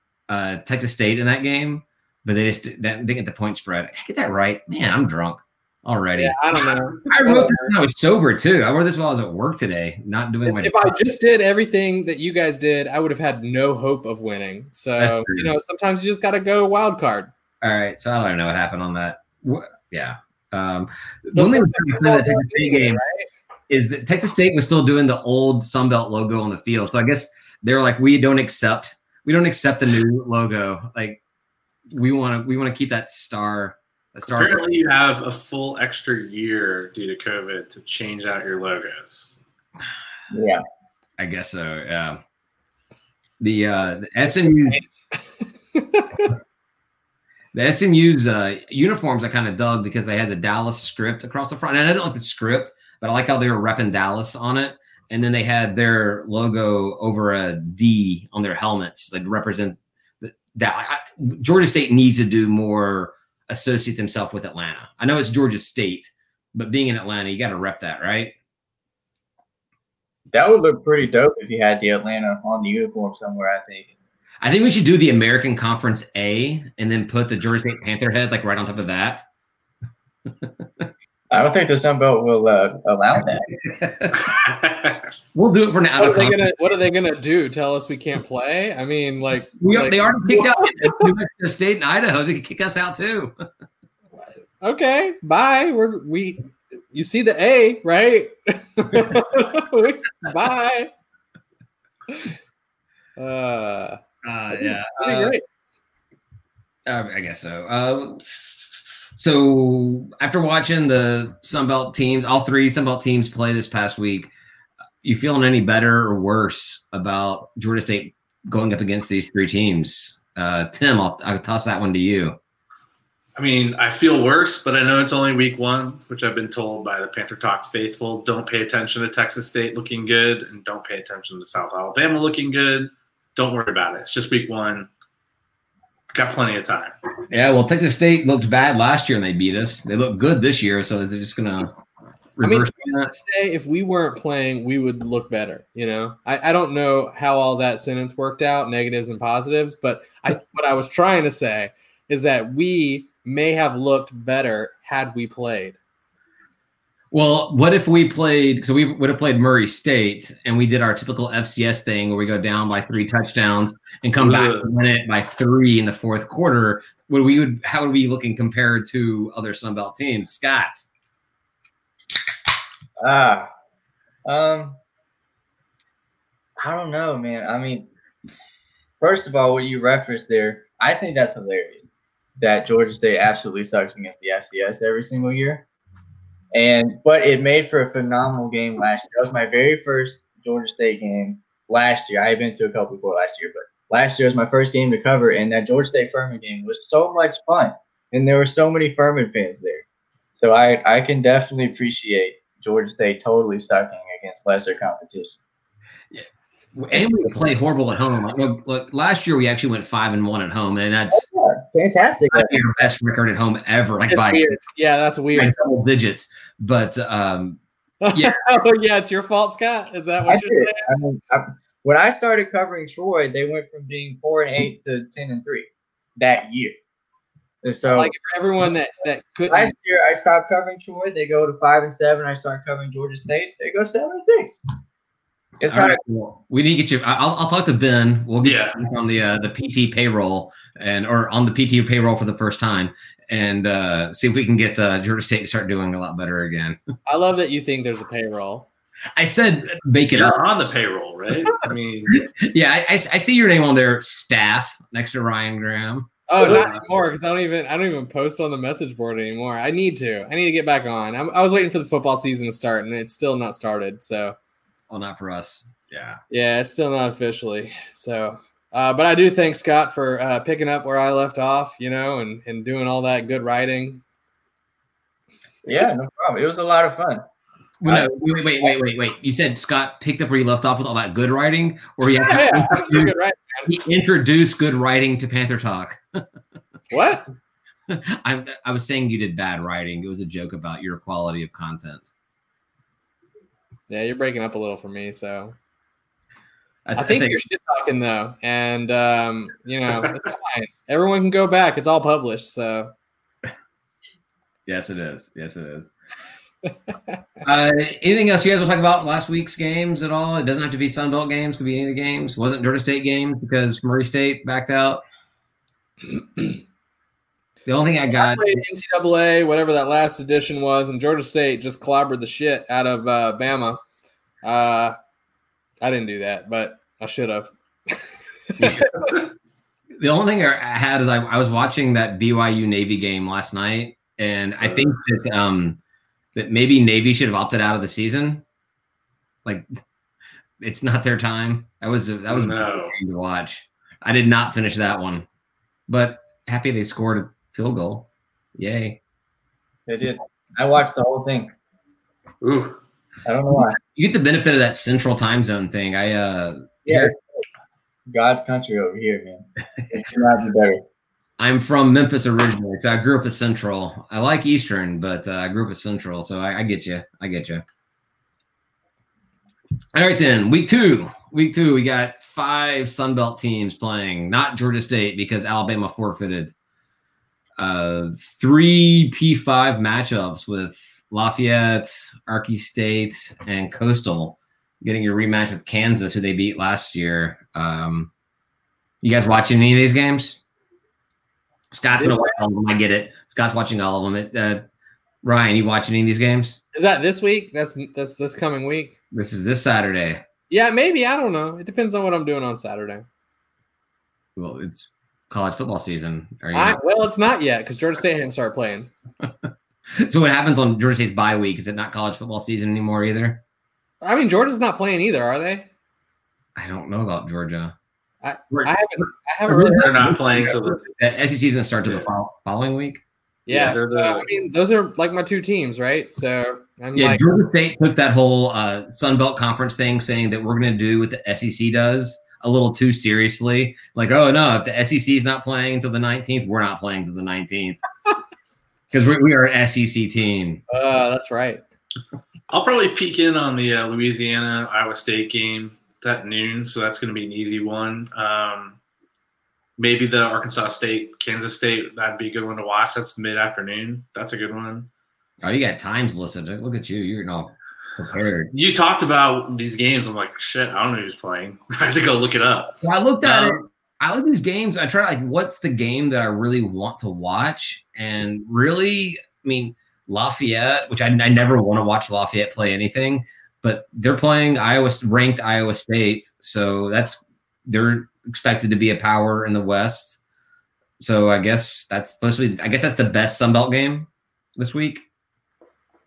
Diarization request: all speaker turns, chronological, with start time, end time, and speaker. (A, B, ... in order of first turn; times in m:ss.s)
0:00.3-0:06.4 A
0:06.2-0:07.7 B
0:07.0-0:10.9 A
0:10.4-0:17.3 B
0:15.0-0:15.5 A
0:17.6-0:23.0 A
0:21.4-0:23.3 B
0:23.7-0:31.2 A
0:31.9-0:34.8 A
0:34.3-0:39.4 C
0:40.3-0:40.6 D
0:41.2-0:42.2 A
0:43.4-0:44.8 A
0:45.1-0:46.3 B
0:47.5-1:08.3 A
1:10.3-1:13.9 D
1:14.4-1:19.2 A
1:20.3-1:20.9 A
1:21.3-1:23.5 D
1:23.5-1:24.3 A
1:24.2-1:25.1 C
1:25.3-1:26.5 A
1:26.0-1:31.1 B
1:29.6-1:33.4 A
1:34.6-1:40.9 B
1:42.1-1:42.4 B
1:43.2-1:44.0 B
1:44.2-1:45.4 A
1:44.6-1:45.4 B
1:46.9-1:48.2 A
1:49.2-1:54.3 A
1:55.0-2:02.4 A
2:03.4-2:14.9 C
2:16.1-2:16.9 C
2:17.3-2:21.8 A
2:22.4-2:23.1 A
2:22.4-2:35.8 B
2:37.1-2:50.9 A
2:44.2-2:44.7 C
2:53.0-2:53.5 D
2:54.2-2:54.8 D
2:56.6-2:57.9 D
2:59.0-3:01.9 D
3:02.4-3:05.6 D
3:06.5-3:19.8 D
3:20.4-3:25.4 D
3:26.1-3:31.2 A
3:31.1-3:32.6 D
3:32.3-3:34.5 A
3:34.1-3:35.5 B
3:35.3-3:37.6 A
3:38.0-3:40.9 B
3:38.1-3:38.4 A
3:40.3-3:46.8 D
3:47.6-3:48.1 D
3:47.8-3:49.7 B
3:49.5-3:54.6 D
3:55.6-3:56.0 D
3:55.6-4:06.8 A
3:58.4-3:58.8 C
4:07.1-4:08.7 B
4:09.2-4:10.4 A
4:10.1-4:12.3 C
4:12.1-4:16.8 A
4:16.3-4:24.4 B
4:24.9-4:26.2 A
4:26.3-4:34.0 B
4:35.6-4:37.2 D
4:37.8-4:43.1 A
4:42.2-4:43.7 B
4:43.7-4:46.2 A
4:46.9-4:47.3 B
4:47.9-4:52.1 A
4:53.9-4:55.6 B
4:56.9-4:57.4 A
4:57.0-5:02.9 B
5:04.7-5:05.9 A
5:06.7-5:07.2 B
5:07.4-5:15.0 A
5:16.1-5:16.6 B
5:17.6-5:18.6 A
5:18.1-5:23.8 B
5:24.4-5:25.0 B
5:25.8-5:29.2 B
5:28.6-5:28.9 A
5:30.0-5:35.8 A
5:34.6-5:34.9 C
5:36.4-5:38.4 A
5:40.6-5:45.3 A
5:42.3-5:42.9 C
5:45.9-5:49.0 A
5:49.9-5:51.5 D
5:52.4-5:52.8 C
5:53.2-5:53.8 D
5:53.8-5:57.1 A
5:56.9-5:57.2 D
5:58.1-6:00.8 D
6:01.4-6:07.6 A
6:09.9-6:16.5 A
6:17.6-6:28.1 A
6:29.0-6:30.4 A
6:31.7-6:34.6 A
6:32.0-6:32.4 B
6:35.2-6:36.6 A
6:36.7-6:39.0 B
6:39.1-6:40.2 A
6:40.5-6:43.1 B
6:44.4-6:46.8 A
6:46.5-6:48.9 B
6:50.0-6:53.4 A
6:54.0-6:55.7 B
6:56.6-6:57.8 A
6:58.2-7:00.1 B
6:58.5-6:58.8 A
6:59.5-7:03.0 A
6:59.6-7:00.9 C
7:03.5-7:07.3 B
7:03.5-7:04.3 C
7:07.0-7:17.8 A
7:18.9-7:20.6 A
7:20.7-7:21.6 B
7:22.5-7:28.8 C
7:29.8-7:34.9 C
7:35.4-7:38.5 A
7:38.5-7:43.6 C
7:42.8-8:00.2 A
8:01.0-8:05.1 A